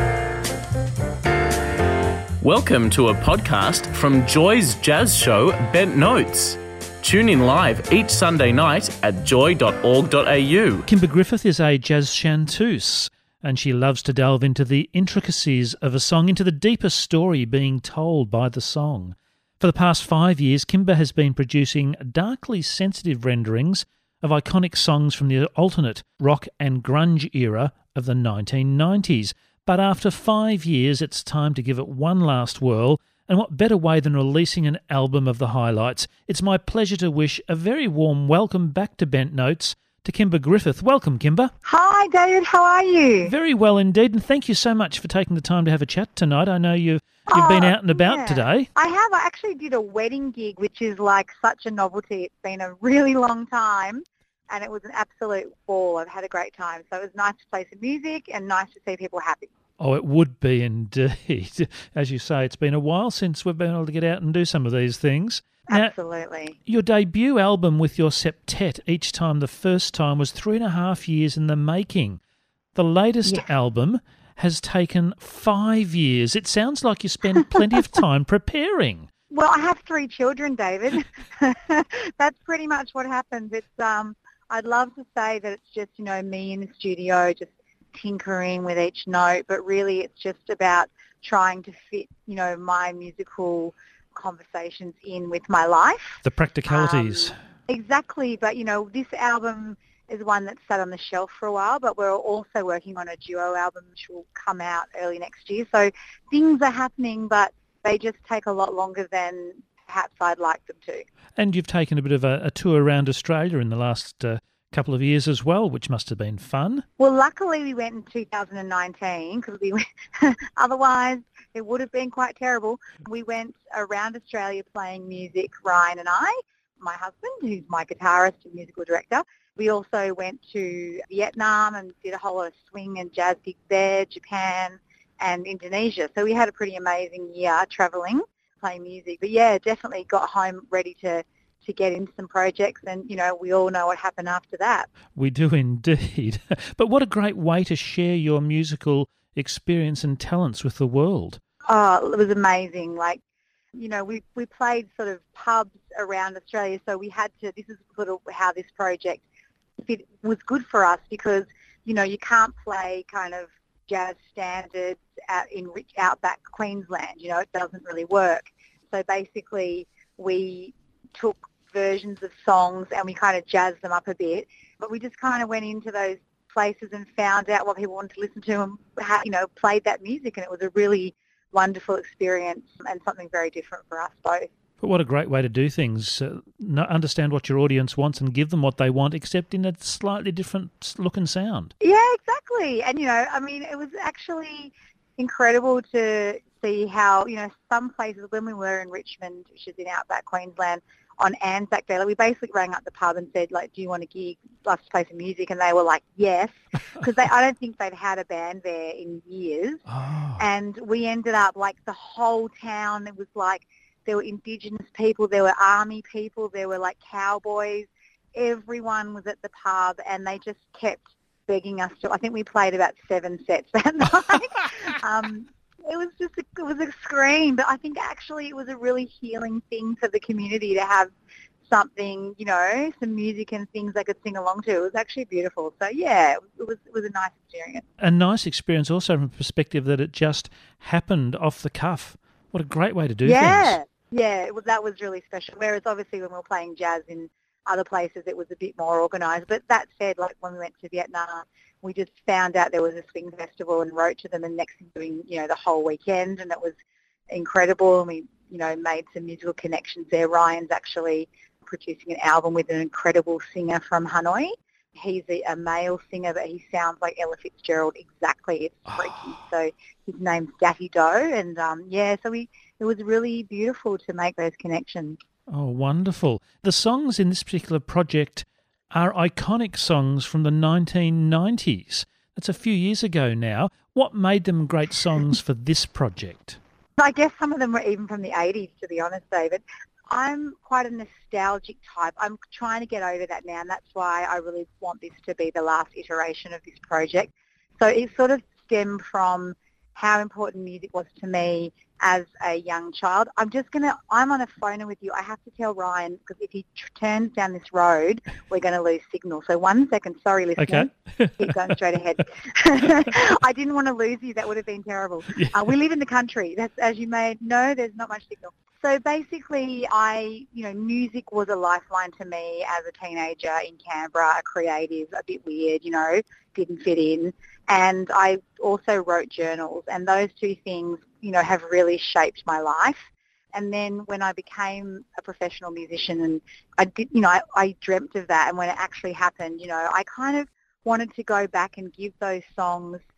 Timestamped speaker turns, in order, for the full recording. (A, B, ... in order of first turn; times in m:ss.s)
0:02.4-0:10.9 A
0:10.9-0:41.5 B
0:41.6-0:43.3 C
0:43.2-0:48.7 B
0:47.3-0:59.5 C
0:59.8-1:06.0 B
1:05.7-1:06.6 C
1:06.7-1:12.2 B
1:12.8-1:19.1 B
1:19.3-1:51.1 C
1:36.2-1:37.4 B
1:51.4-1:56.8 B
1:57.0-2:24.9 C
2:25.2-2:31.4 B
2:31.7-2:33.2 C
2:33.8-2:39.2 C
2:39.8-3:04.5 C
3:04.8-3:11.7 B
3:11.8-3:29.8 C
3:29.9-3:30.4 B
3:30.4-3:51.1 C
3:51.7-3:57.8 C
3:58.0-4:03.8 B
4:03.2-4:16.8 C
4:17.3-4:35.2 C
4:35.5-4:46.6 B
4:47.0-5:43.0 C
5:10.6-5:11.6 B
5:15.3-5:15.7 B